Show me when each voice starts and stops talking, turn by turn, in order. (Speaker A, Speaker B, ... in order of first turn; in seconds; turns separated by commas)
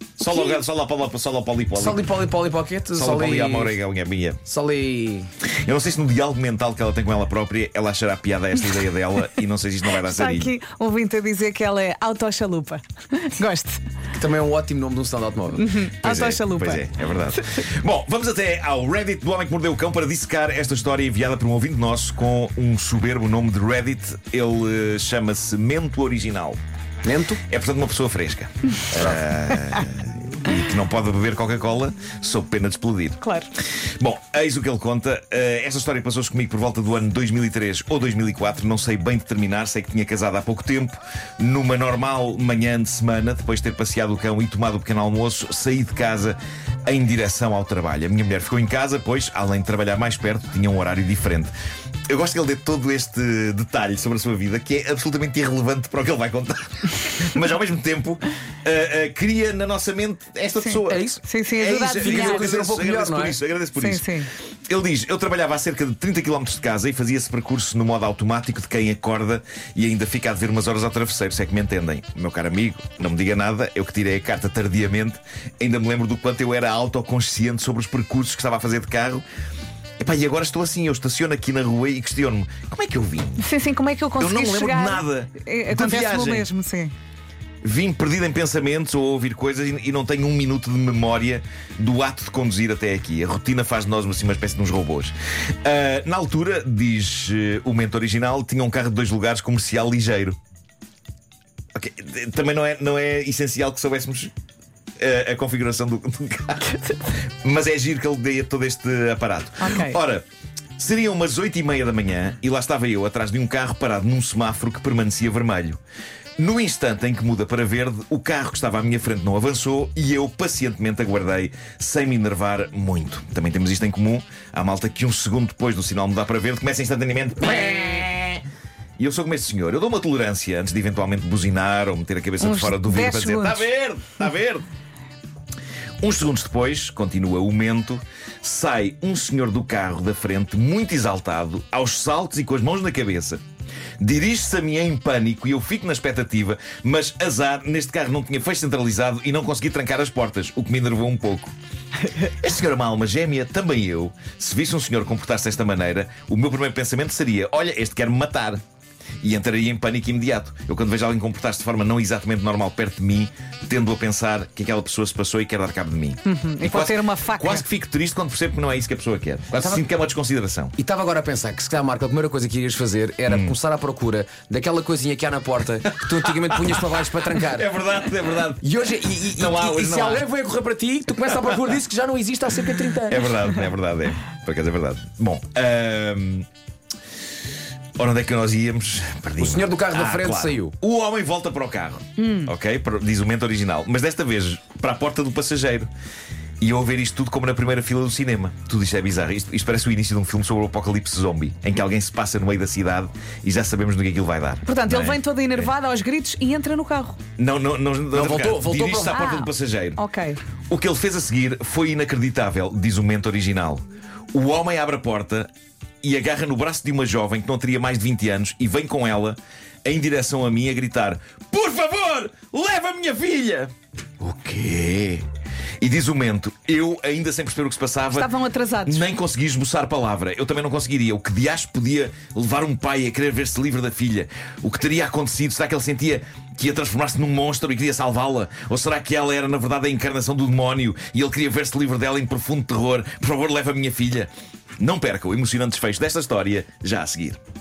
Speaker A: 0.2-2.1, Speaker B: 1.8-3.8, Speaker A: 2.9-4.4, Speaker B: 4.5-5.3, Speaker A: 5.6-10.6, Speaker C: 10.0-13.8, Speaker B: 14.2-15.8, Speaker C: 15.5-16.9, Speaker A: 15.9-26.6, Speaker B: 27.1-27.4, Speaker A: 27.5-33.2, Speaker B: 28.9-29.2, Speaker C: 33.2-33.5, Speaker A: 34.0-51.5, Speaker A: 52.1-64.1, Speaker C: 60.6-62.5, Speaker B: 60.9-61.2, Speaker B: 61.9-63.4, Speaker C: 63.8-64.3, Speaker A: 64.7-79.2, Speaker A: 80.0-83.5, Speaker C: 83.4-86.9, Speaker A: 84.2-86.5, Speaker A: 87.6-100.4, Speaker A: 101.8-104.3, Speaker A: 105.0-110.2, Speaker C: 109.6-110.0, Speaker A: 110.8-115.8, Speaker A: 116.4-128.4, Speaker A: 129.0-134.7, Speaker C: 132.4-133.7, Speaker A: 136.0-143.4, Speaker A: 144.0-151.5, Speaker A: 152.2-158.6, Speaker A: 159.2-170.8, Speaker C: 166.2-167.7, Speaker B: 169.6-169.8, Speaker B: 170.8-177.7, Speaker A: 173.3-173.6, Speaker A: 177.4-178.6, Speaker B: 178.6-183.3, Speaker A: 179.3-180.2, Speaker A: 183.1-186.5, Speaker A: 188.0-195.9, Speaker B: 189.4-190.7, Speaker C: 192.2-192.5, Speaker A: 196.6-205.7, Speaker C: 204.7-207.2, Speaker A: 207.4-210.0, Speaker B: 208.1-209.3, Speaker C: 209.1-210.4, Speaker A: 210.7-215.5, Speaker A: 216.0-225.2, Speaker A: 225.8-228.3, Speaker C: 228.1-229.1, Speaker A: 228.8-247.4